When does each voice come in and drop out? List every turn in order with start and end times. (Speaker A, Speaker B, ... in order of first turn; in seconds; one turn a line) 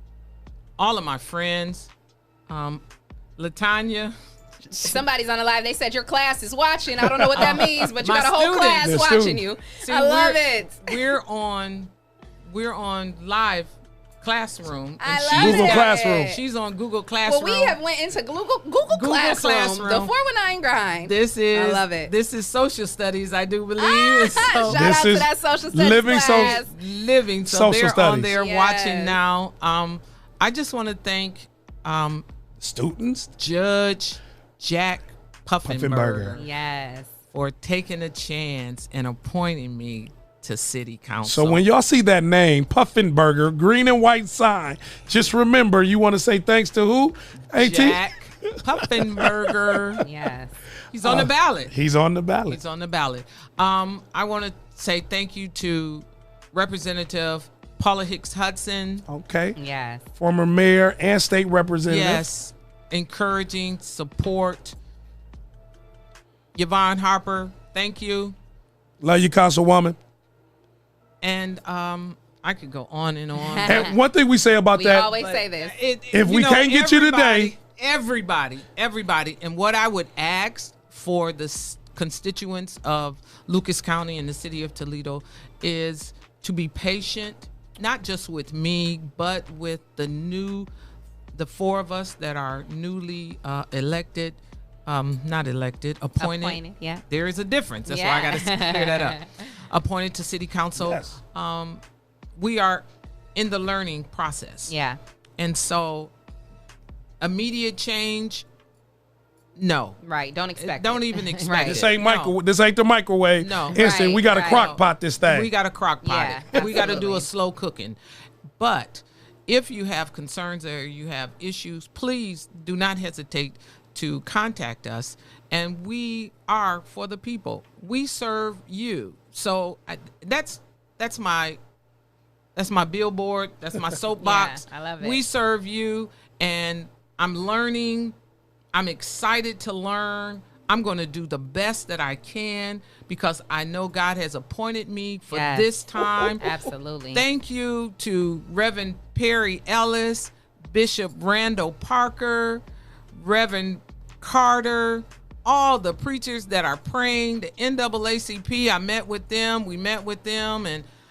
Speaker A: 0.8-1.9
Speaker A: 2.5-2.8
Speaker A: 3.4-4.1
Speaker B: 4.7-11.0
Speaker C: 7.0-7.7
Speaker A: 7.3-8.9
Speaker C: 8.7-9.4
Speaker A: 9.8-11.9
Speaker A: 12.5-17.8
Speaker B: 15.0-16.4
Speaker C: 15.3-16.4
Speaker B: 17.2-22.1
Speaker A: 18.9-20.1
Speaker A: 21.0-24.9
Speaker B: 23.8-26.7
Speaker C: 24.7-26.6
Speaker A: 26.3-32.2
Speaker C: 27.5-28.4
Speaker B: 28.3-29.2
Speaker C: 32.6-33.3
Speaker A: 33.4-36.5
Speaker C: 35.6-36.4
Speaker B: 36.3-37.1
Speaker A: 37.3-41.6
Speaker C: 41.2-49.5
Speaker A: 47.5-50.0
Speaker B: 50.0-50.6
Speaker A: 50.9-51.7
Speaker C: 51.0-52.6
Speaker A: 52.5-59.0
Speaker C: 59.1-59.6
Speaker B: 59.5-60.0
Speaker C: 60.2-62.3
Speaker A: 61.9-64.8
Speaker A: 66.5-68.3
Speaker C: 69.0-70.0
Speaker A: 71.2-73.8
Speaker B: 73.3-74.0
Speaker C: 73.7-75.1
Speaker B: 74.7-75.7
Speaker A: 75.1-90.7
Speaker C: 76.1-77.5
Speaker A: 91.3-101.8
Speaker B: 96.2-97.0
Speaker B: 97.9-99.5
Speaker C: 100.8-101.1
Speaker A: 102.4-104.7
Speaker B: 104.7-105.0
Speaker A: 105.4-106.1
Speaker A: 107.2-108.5
Speaker A: 109.5-110.0
Speaker B: 110.0-111.8
Speaker A: 110.5-112.3
Speaker C: 111.6-115.5
Speaker A: 113.4-118.0
Speaker B: 113.7-114.7
Speaker B: 116.0-117.3
Speaker A: 118.6-131.6
Speaker A: 132.6-138.1
Speaker B: 134.2-135.2
Speaker A: 138.7-146.5
Speaker B: 145.3-145.7
Speaker B: 146.4-147.2
Speaker A: 147.1-152.6
Speaker A: 153.1-160.8